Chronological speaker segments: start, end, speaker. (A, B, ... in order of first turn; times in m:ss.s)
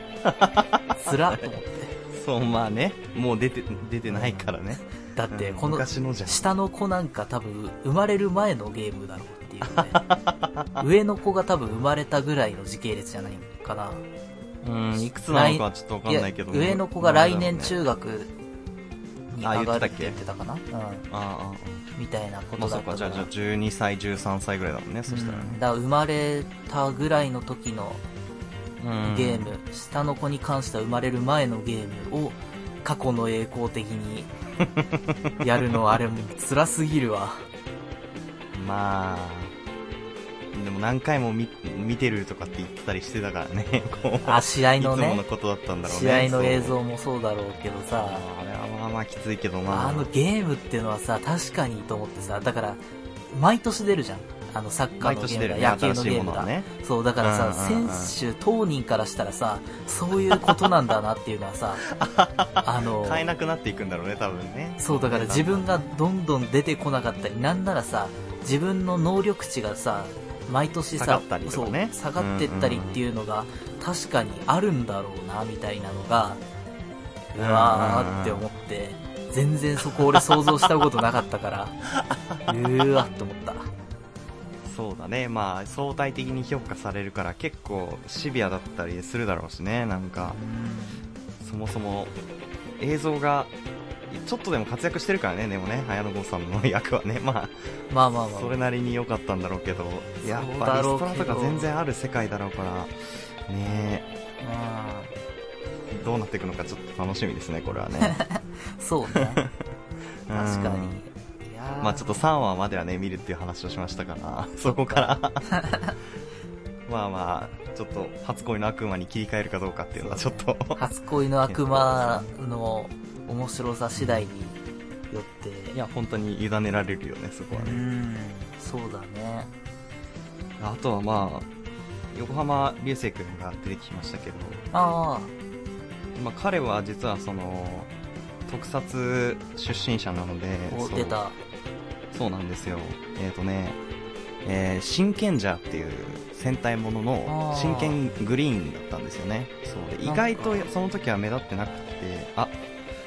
0:00.2-0:01.4 A
0:01.0-0:01.9 B
0:02.1-0:06.4 A
0:04.0-0:04.6 B
0:05.1-0:10.0 B
0:09.7-0:10.8 A
0:10.8-0:14.0 B
0:14.6-0:17.8 A
0:14.9-0:18.3 B
0:19.3-0:21.1 B
0:19.4-0:20.2 A
0:21.1-0:21.8 A
0:21.9-0:23.3 B
0:22.5-0:25.6 A
0:25.1-0:28.0 B
0:28.8-0:29.5 A
0:29.0-0:34.3 B
0:35.4-0:37.5 B
0:38.5-0:39.5 A
0:40.5-0:46.8 A
0:43.8-0:45.2 B
0:45.8-0:48.2 B
0:47.9-0:50.1 A
0:49.7-1:01.8 B
0:55.0-0:56.7 A
0:57.2-0:58.2 A
1:01.9-1:05.8 A
1:02.6-1:03.2 B
1:04.8-1:16.4 B
1:11.0-1:13.0 A
1:17.3-1:21.8 B
1:17.4-1:18.4 A
1:22.5-1:23.7 B
1:24.6-1:30.4 A
1:30.2-1:31.0 B
1:31.4-1:32.1 A
1:32.8-1:33.5 A
1:34.1-1:37.5 A
1:37.9-1:38.6 B
1:38.3-1:42.9 A
1:40.2-1:41.7 B
1:43.5-1:44.0 A
1:44.4-1:45.1 B
1:45.9-1:48.2 A
1:48.0-1:49.4 B
1:49.1-1:49.5 A
1:50.3-1:51.0 A
1:50.3-1:52.2 B
1:51.8-1:55.5 A
1:54.6-1:55.9 B
1:56.9-2:00.8 A
2:00.0-2:04.6 B
2:01.5-2:02.3 A
2:04.0-2:04.2 A
2:05.1-2:05.8 B
2:05.7-2:07.8 A
2:07.5-2:09.5 B
2:10.6-2:11.5 A
2:12.1-2:14.6 A
2:14.7-2:15.3 B
2:16.2-2:17.9 A
2:18.5-2:21.2 A
2:20.7-2:21.4 B
2:22.1-2:23.8 A
2:24.4-2:32.6 A
2:27.3-2:28.0 B
2:30.0-2:30.7 B